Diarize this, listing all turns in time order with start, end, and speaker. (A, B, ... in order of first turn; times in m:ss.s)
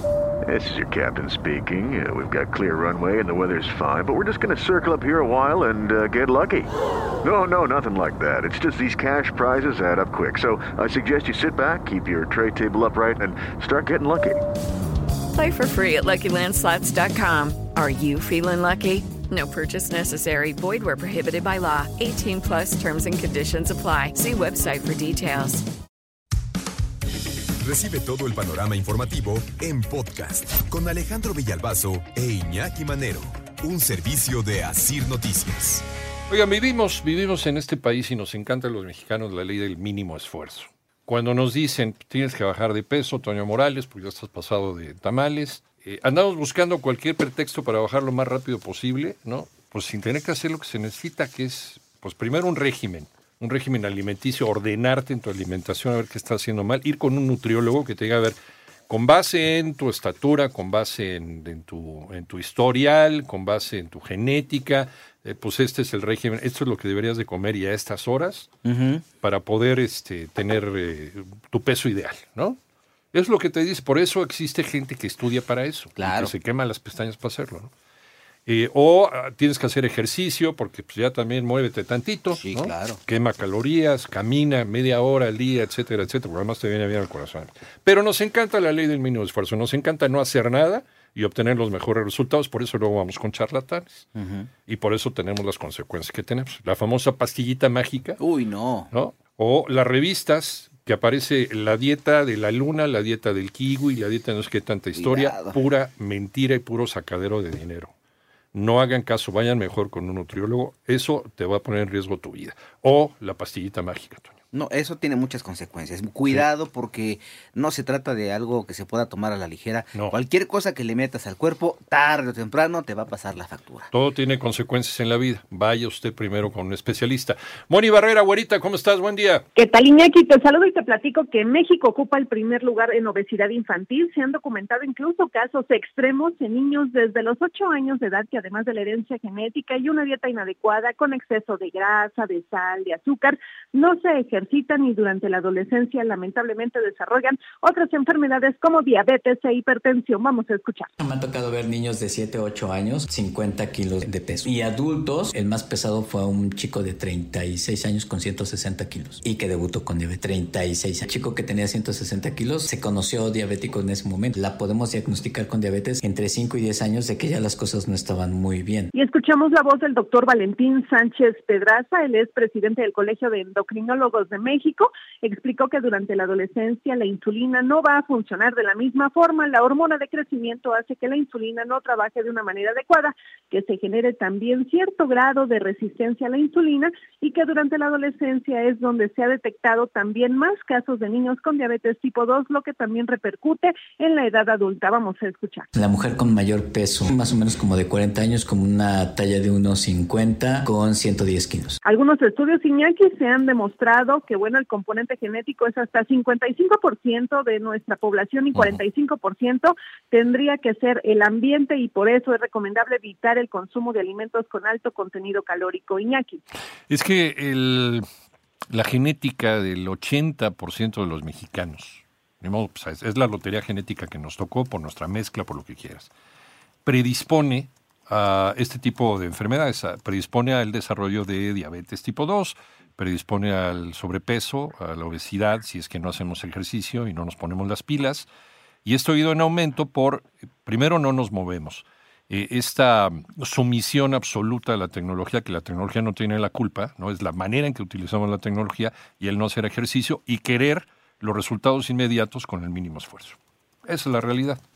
0:00.4-0:06.7 A
0:07.2-0:14.4 A
0:15.3-0:25.6 B
0:27.7-0:35.8 C
0:36.3-0:58.4 D
0:58.9-1:08.5 D
1:08.6-1:09.0 E
1:09.2-1:12.6 D
1:13.1-1:17.7 D
1:16.0-1:16.3 E
1:18.5-1:34.1 D
1:22.3-1:23.0 E
1:34.2-1:34.5 E
1:34.7-1:38.2 D
1:38.2-1:38.9 E
1:38.9-1:47.9 D
1:44.9-1:45.6 E
1:48.5-1:54.4 D
1:54.5-2:03.9 E
2:03.9-2:09.4 D
2:09.6-2:30.9 F
2:31.0-2:48.9 G
2:48.9-3:15.7 F
3:15.8-3:21.8 G
3:21.8-3:36.4 F
3:36.9-3:38.0 D
3:38.7-3:46.1 D
3:46.8-3:58.3 D
3:58.8-4:14.6 D